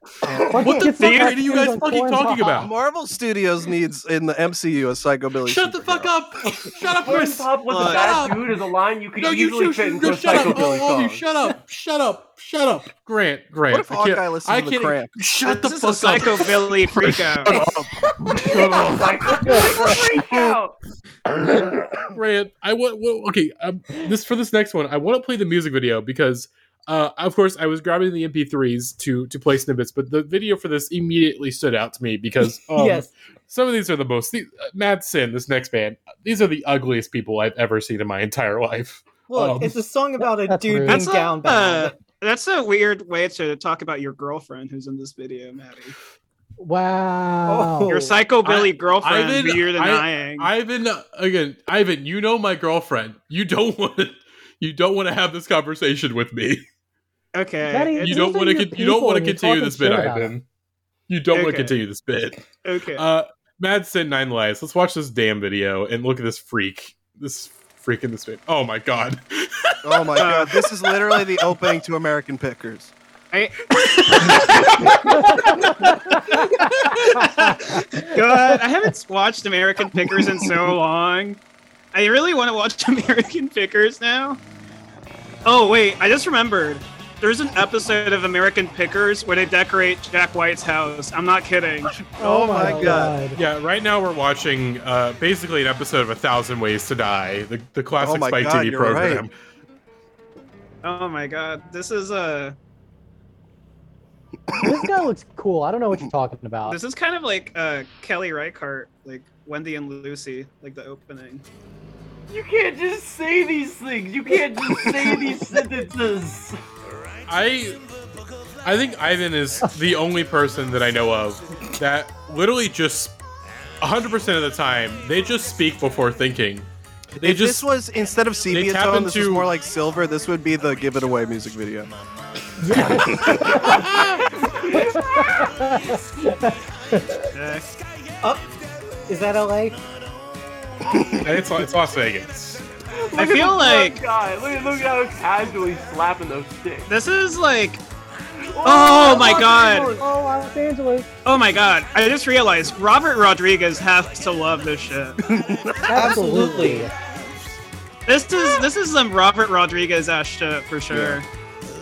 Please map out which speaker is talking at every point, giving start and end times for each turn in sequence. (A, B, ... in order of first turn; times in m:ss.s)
0:00.2-0:02.7 A
0:00.5-0:02.7 B
0:01.0-0:01.3 C
0:02.6-0:06.1 D
0:05.4-0:08.5 B
0:06.8-0:11.3 E
0:07.7-0:08.3 C
0:09.2-0:20.1 B
0:13.7-0:15.2 D
0:15.4-0:17.6 C
0:17.5-0:17.8 D
0:17.5-0:18.4 F
0:18.4-0:20.8 E
0:21.4-0:39.8 B
0:32.7-0:33.1 F
0:39.3-0:42.0 F
0:40.2-0:41.1 A
0:40.9-0:46.0 C
0:46.6-0:48.1 A
0:47.5-0:48.0 F
0:47.8-0:50.5 C
0:48.4-0:56.6 B
0:57.3-0:58.2 C
0:57.7-1:00.3 A
0:58.0-1:00.4 B
1:01.1-1:10.1 B
1:01.3-1:01.8 C
1:02.6-1:03.0 C
1:09.8-1:12.9 D
1:10.2-1:11.2 C
1:13.3-1:21.4 C
1:15.1-1:18.2 A
1:21.9-1:24.4 C
1:25.4-1:32.0 C
1:32.0-1:33.2 D
1:32.2-1:33.4 A
1:33.3-1:39.3 B
1:38.0-1:39.3 D
1:40.8-1:42.6 C
1:44.6-1:46.8 A
1:46.6-1:51.4 C
1:52.3-1:56.6 E
1:57.3-1:57.8 B
1:58.6-2:03.2 B
2:03.8-2:07.7 B
2:07.2-2:11.9 D
2:08.5-2:09.5 B
2:12.6-2:13.7 A
2:12.8-2:14.5 B
2:13.1-2:13.7 D
2:14.6-2:15.5 E
2:14.7-2:17.3 A
2:17.3-2:17.7 C
2:18.2-2:19.8 F
2:20.9-2:21.2 D
2:21.2-2:22.7 B
2:22.9-2:26.9 E
2:23.2-2:24.0 C
2:26.9-2:27.8 C
2:28.4-2:30.0 E
2:28.6-2:30.0 C
2:29.0-2:31.1 A
2:31.2-2:35.3 C
2:35.2-2:36.0 D
2:35.9-2:36.9 A
2:35.9-2:36.9 F
2:38.0-2:41.3 C
2:40.9-2:41.2 D